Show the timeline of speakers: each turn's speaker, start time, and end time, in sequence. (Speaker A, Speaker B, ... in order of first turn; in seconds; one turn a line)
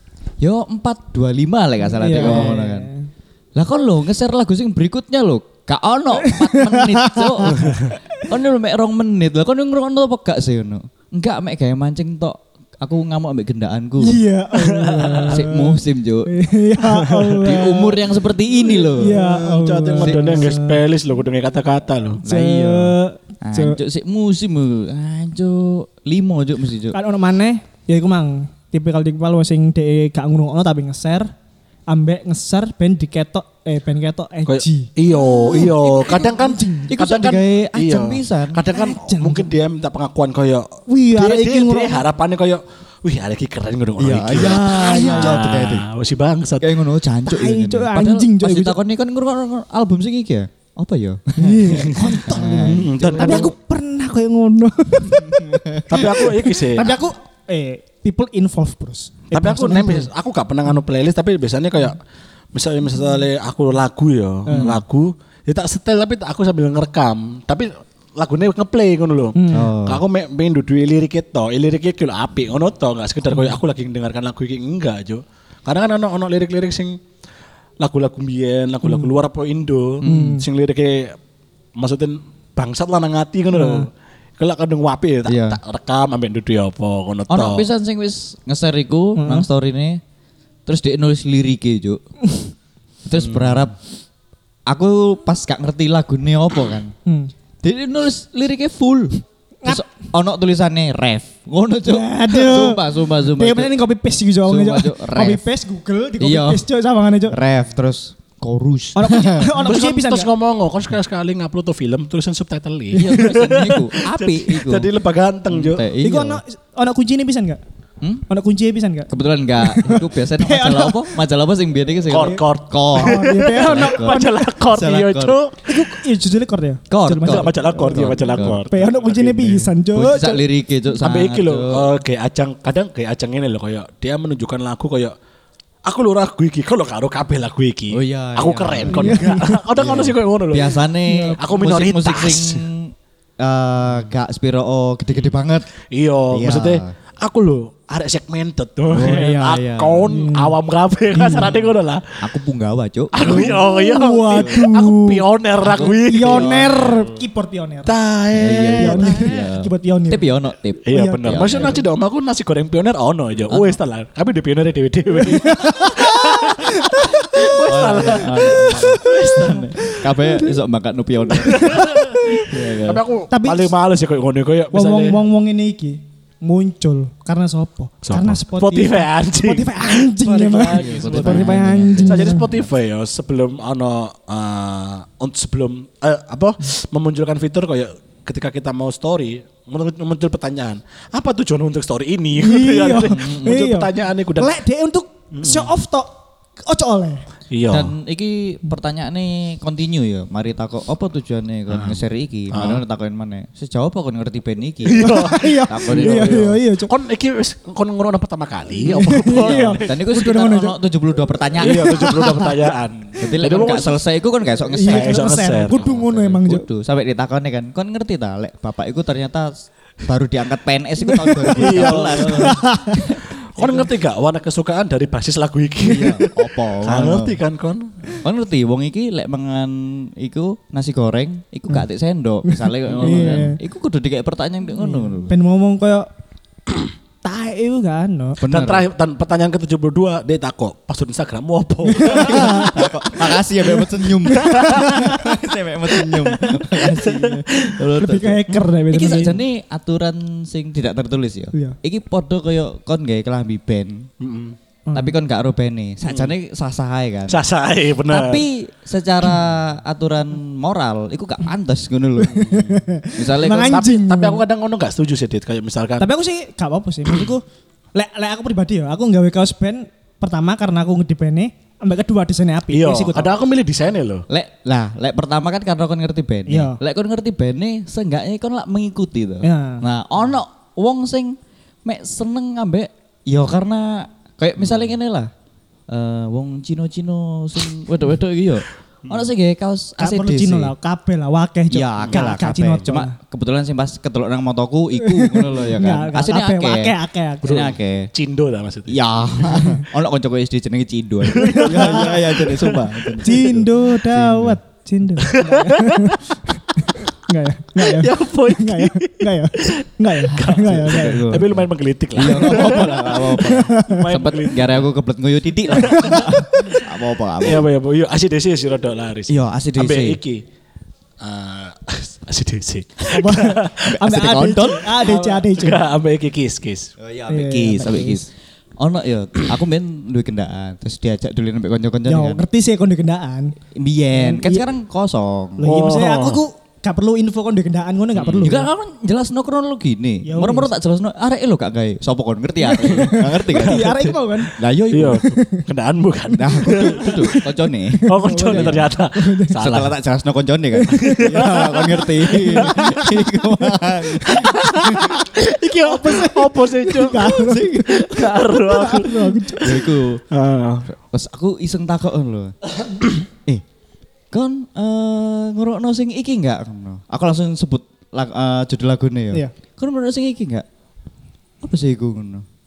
Speaker A: 0.4-2.9
Speaker B: 1.9-3.1
Speaker A: 3.5-14.2
Speaker B: 6.2-8.2
Speaker B: 14.0-18.0
Speaker C: 14.5-15.4
Speaker A: 15.2-16.3
Speaker C: 17.0-17.4
Speaker A: 17.4-19.2
Speaker B: 18.8-20.8
Speaker C: 18.9-22.2
Speaker A: 20.0-20.5
Speaker A: 22.2-27.0
Speaker B: 22.2-23.8
Speaker B: 26.9-31.3
Speaker B: 31.9-37.0
Speaker C: 34.5-46.7
Speaker A: 35.3-35.8
Speaker A: 36.9-38.6
Speaker B: 38.7-39.5
Speaker B: 40.9-42.1
Speaker A: 44.0-45.9
Speaker B: 44.4-45.5
Speaker A: 46.6-53.5
Speaker B: 47.2-48.8
Speaker B: 51.4-60.1
Speaker C: 51.8-52.1
Speaker C: 52.6-53.5
Speaker A: 55.1-56.1
Speaker C: 55.9-57.0
Speaker C: 59.3-62.0
Speaker C: 62.5-77.0
Speaker B: 64.5-64.8
Speaker A: 64.5-64.8
Speaker B: 69.3-69.7
Speaker A: 69.5-70.0
Speaker C: 77.8-81.2
Speaker B: 78.8-79.1
Speaker A: 80.0-80.4
Speaker B: 80.0-80.4
Speaker C: 81.8-87.7
Speaker B: 83.5-83.9
Speaker A: 85.2-85.6
Speaker A: 87.3-90.0
Speaker B: 89.2-89.5
Speaker A: 90.7-92.0
Speaker A: 93.0-93.8
Speaker C: 93.1-93.7
Speaker A: 94.7-96.9
Speaker A: 97.6-103.8
Speaker B: 101.8-107.4
Speaker A: 104.4-105.4
Speaker A: 106.2-106.6
Speaker A: 107.3-109.6
Speaker B: 108.9-110.3
Speaker C: 109.6-115.8
Speaker A: 112.9-114.9
Speaker A: 115.5-116.4
Speaker B: 116.0-117.6
Speaker B: 118.3-121.1
Speaker A: 119.1-125.4
Speaker C: 122.1-125.6
Speaker B: 123.0-124.5
Speaker B: 125.7-130.4
Speaker A: 126.9-128.7
Speaker C: 127.2-129.7
Speaker A: 129.8-131.9
Speaker C: 131.0-135.1
Speaker C: 135.8-140.8
Speaker A: 137.9-145.7
Speaker B: 138.9-139.6
Speaker B: 141.0-141.4
Speaker C: 141.4-142.6
Speaker C: 145.9-152.2
Speaker A: 146.3-146.9
Speaker A: 148.9-150.1
Speaker B: 150.1-150.5
Speaker B: 151.1-151.6
Speaker A: 151.2-151.6
Speaker A: 152.2-153.6
Speaker C: 153.1-156.9
Speaker B: 153.2-155.2
Speaker A: 154.3-154.6
Speaker A: 155.6-157.1
Speaker B: 156.0-157.9
Speaker C: 157.8-159.3
Speaker A: 158.3-161.8
Speaker B: 158.8-160.2
Speaker C: 160.8-169.6
Speaker B: 160.9-161.8
Speaker A: 163.5-163.8
Speaker B: 165.2-167.5
Speaker A: 167.3-173.0
Speaker B: 168.7-170.6
Speaker B: 171.4-172.5
Speaker C: 171.4-175.2
Speaker B: 173.3-173.7
Speaker B: 174.7-182.5
Speaker C: 178.0-194.5
Speaker A: 180.7-182.5
Speaker B: 192.4-196.1
Speaker A: 193.2-193.6
Speaker C: 195.3-195.7
Speaker B: 196.7-197.2
Speaker C: 197.5-197.9
Speaker A: 197.7-206.6
Speaker C: 201.7-202.0
Speaker C: 202.5-202.8
Speaker C: 204.8-209.9
Speaker B: 205.0-206.9
Speaker B: 208.8-210.8
Speaker A: 209.3-212.3
Speaker C: 211.6-214.0
Speaker B: 211.6-212.5
Speaker A: 213.1-223.9
Speaker B: 214.7-216.6
Speaker C: 214.8-215.8
Speaker B: 221.0-223.2
Speaker C: 221.5-222.6
Speaker C: 223.6-228.1
Speaker A: 225.8-227.4
Speaker A: 228.2-235.3
Speaker B: 232.4-233.6
Speaker C: 232.9-233.4
Speaker B: 234.8-236.1
Speaker B: 237.2-238.4
Speaker A: 238.4-238.9
Speaker C: 238.5-242.7
Speaker B: 241.9-245.3
Speaker A: 242.1-254.1
Speaker C: 244.3-245.0
Speaker C: 246.0-247.8
Speaker B: 248.0-249.4
Speaker C: 254.2-254.6
Speaker B: 254.9-255.2
Speaker A: 254.9-257.4
Speaker C: 256.1-256.3
Speaker C: 257.3-258.4
Speaker A: 258.1-262.5
Speaker B: 262.2-264.4
Speaker C: 262.3-262.8
Speaker A: 263.1-263.8
Speaker C: 263.5-266.1
Speaker B: 266.0-267.4
Speaker B: 267.9-273.3
Speaker C: 272.7-274.2
Speaker A: 274.3-285.3
Speaker B: 276.5-276.8
Speaker B: 279.4-279.8
Speaker A: 285.9-290.7
Speaker B: 290.0-293.1
Speaker A: 291.7-298.1
Speaker B: 295.0-297.7
Speaker C: 297.4-299.0
Speaker A: 298.9-304.6
Speaker B: 299.4-299.8
Speaker C: 301.3-303.2
Speaker B: 301.4-302.2
Speaker B: 303.2-311.3
Speaker C: 305.2-306.1
Speaker C: 307.8-314.9
Speaker A: 310.5-317.7
Speaker B: 312.2-314.0
Speaker C: 315.7-316.8
Speaker B: 315.8-316.8
Speaker C: 317.4-320.4
Speaker A: 319.3-320.2
Speaker C: 321.2-323.9
Speaker B: 323.1-325.8
Speaker A: 323.8-324.9
Speaker C: 324.9-326.9
Speaker A: 327.0-328.3
Speaker B: 327.3-328.2
Speaker A: 328.8-332.4
Speaker B: 332.1-333.6
Speaker A: 333.7-335.7
Speaker B: 334.1-334.7
Speaker B: 335.6-338.7
Speaker C: 335.6-336.4
Speaker C: 338.1-338.6
Speaker A: 338.4-345.2
Speaker B: 340.2-340.7
Speaker B: 342.6-344.5
Speaker C: 342.9-344.1
Speaker C: 344.9-347.4
Speaker B: 345.1-345.6
Speaker A: 346.4-348.9
Speaker B: 346.5-347.1
Speaker B: 348.1-349.6
Speaker C: 348.1-349.9
Speaker A: 349.6-355.2
Speaker B: 350.8-353.1
Speaker C: 351.0-353.1
Speaker C: 354.2-359.7
Speaker B: 355.4-359.8
Speaker A: 357.1-358.2
Speaker A: 359.6-360.2
Speaker C: 360.3-360.9
Speaker A: 360.9-362.5
Speaker A: 364.3-370.6
Speaker A: 371.6-372.4